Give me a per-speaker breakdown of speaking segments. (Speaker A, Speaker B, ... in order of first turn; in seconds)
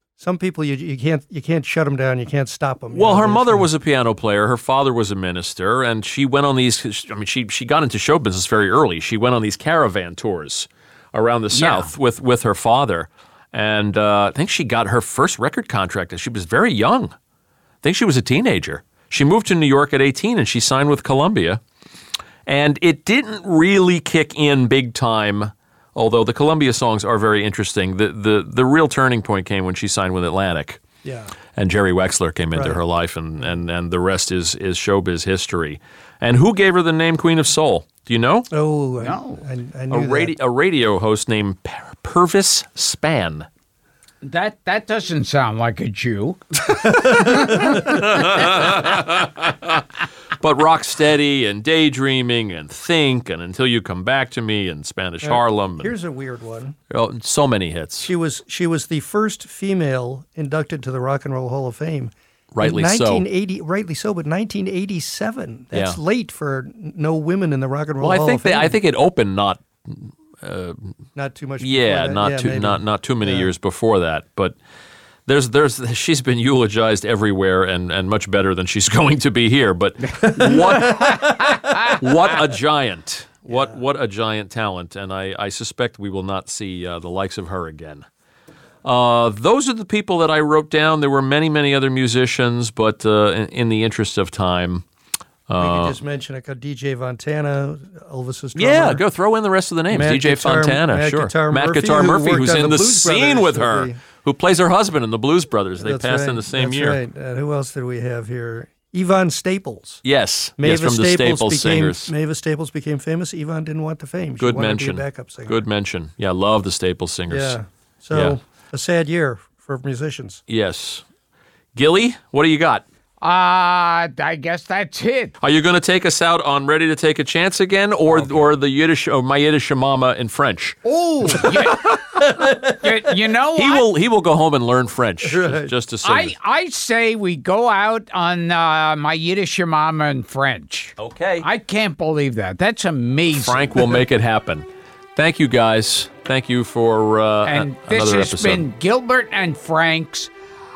Speaker A: 0.2-3.7, 31.0-31.3, 32.5-32.8, 38.5-40.4, 55.2-56.8, 58.0-68.8, 71.2-73.5, 80.4-81.6, 83.5-83.8, 95.6-99.0, 99.9-104.0, 105.8-110.0, 110.6-115.6, 117.3-120.4, 128.1-128.5, 130.8-131.7, 132.3-132.7, 135.2-135.7
Speaker B: 2.9-17.1, 17.8-21.6, 22.5-30.8, 31.6-38.5, 39.9-43.5, 47.2-49.8, 50.4-55.9, 56.9-58.1, 62.5-63.2, 65.7-66.0, 68.0-70.9, 71.6-74.6, 75.3-88.0, 88.8-94.8, 95.5-96.0, 98.6-107.0, 110.0-112.1, 114.4-117.6, 120.5-121.0, 121.8-122.8, 125.4-132.3, 133.6-136.3, 141.0-141.5, 143.3-144.7, 145.2-148.6
Speaker C: 11.5-11.9, 39.0-39.4, 44.2-48.3, 80.2-82.0, 123.2-125.3, 131.3-132.0, 132.8-133.8, 136.0-144.0, 147.4-150.3